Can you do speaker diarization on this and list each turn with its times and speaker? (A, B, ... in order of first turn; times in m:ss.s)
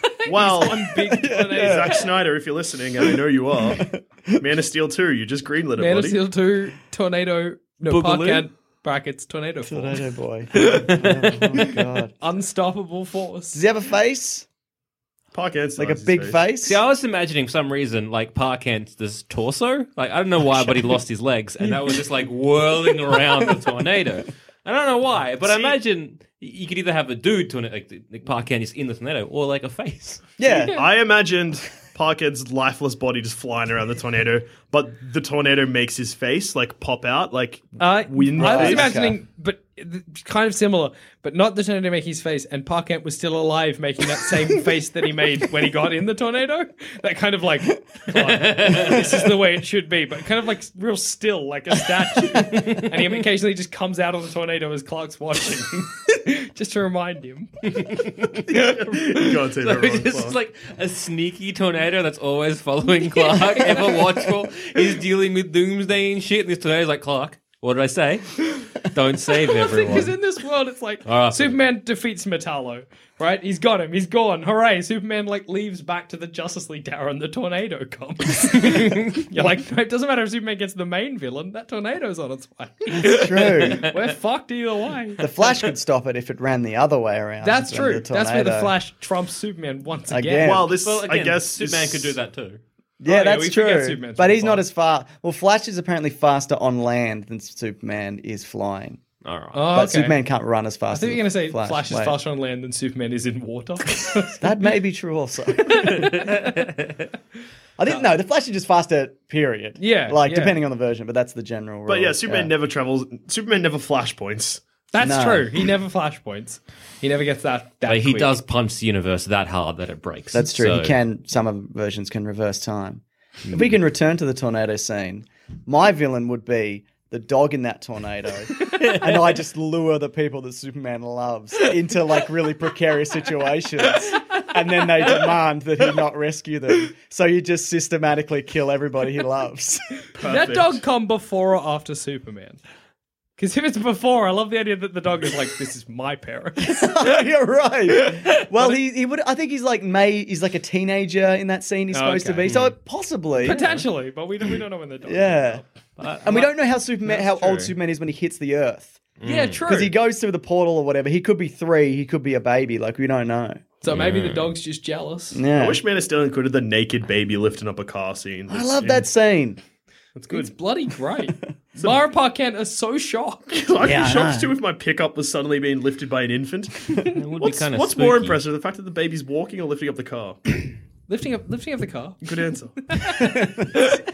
0:00.1-0:02.0 A
0:00.3-0:06.2 B
0:01.1-0:02.1 C
0:03.7-0:04.4 C
0:05.8-0:10.0 A
0:07.9-0:08.5 D
0:09.6-0:12.1 C
0:10.6-0:11.7 D
0:12.2-0:13.6 A
0:13.5-0:14.5 C
0:15.3-0:16.4 B
0:15.8-0:16.8 C
0:16.6-0:30.2 D
0:21.6-0:22.0 A
0:25.4-0:25.8 B
0:30.4-0:30.8 C
0:30.4-0:30.8 A
0:30.7-0:39.0 B
0:37.8-0:57.5 A
0:38.4-0:39.2 C
0:48.1-0:49.2 D
0:52.7-0:53.1 D
0:57.6-1:10.1 D
0:58.5-1:00.4 B
1:03.2-1:04.0 A
1:09.5-1:25.3 A
1:11.0-1:11.6 D
1:18.6-1:19.2 D
1:22.9-1:23.9 C
1:25.2-1:28.8 C
1:27.4-1:30.6 A
1:30.1-1:30.7 C
1:30.4-1:32.2 B
1:30.8-1:32.6 D
1:33.0-1:39.0 C
1:33.0-1:34.6 A
1:39.2-1:39.7 D
1:39.5-1:40.2 A
1:39.7-1:42.2 C
1:40.9-1:44.4 A
1:44.4-1:46.1 C
1:45.7-1:46.5 A
1:45.9-1:46.9 D
1:47.8-1:52.5 C
1:49.8-1:50.6 A
1:51.9-1:54.6 B
1:54.9-1:58.4 A
1:55.0-1:55.5 C
1:57.9-2:01.0 D
2:00.3-2:20.0 C
2:03.4-2:03.7 D
2:08.8-2:09.0 D
2:20.2-2:20.8 B
2:20.2-2:22.6 A
2:23.4-2:27.0 A
2:26.6-2:33.7 C
2:31.9-2:32.5 A
2:32.4-2:32.8 D
2:33.4-2:35.7 A
2:33.4-2:33.8 D
2:35.1-2:35.6 C
2:36.0-2:36.5 D
2:36.2-2:39.0 C
2:37.2-2:37.7 D
2:39.2-2:39.6 D
2:39.2-2:40.0 A
2:39.7-2:43.6 C
2:43.8-2:45.4 A
2:43.9-2:44.5 D
2:45.3-2:45.8 C
2:45.6-2:49.1 B
2:48.5-2:49.6 C
2:50.2-2:50.5 B
2:50.3-2:53.5 A
2:53.5-3:00.4 B
2:53.8-2:54.5 C
2:57.1-2:58.4 D
3:01.1-3:03.5 A
3:02.2-3:02.8 B
3:03.2-3:03.9 C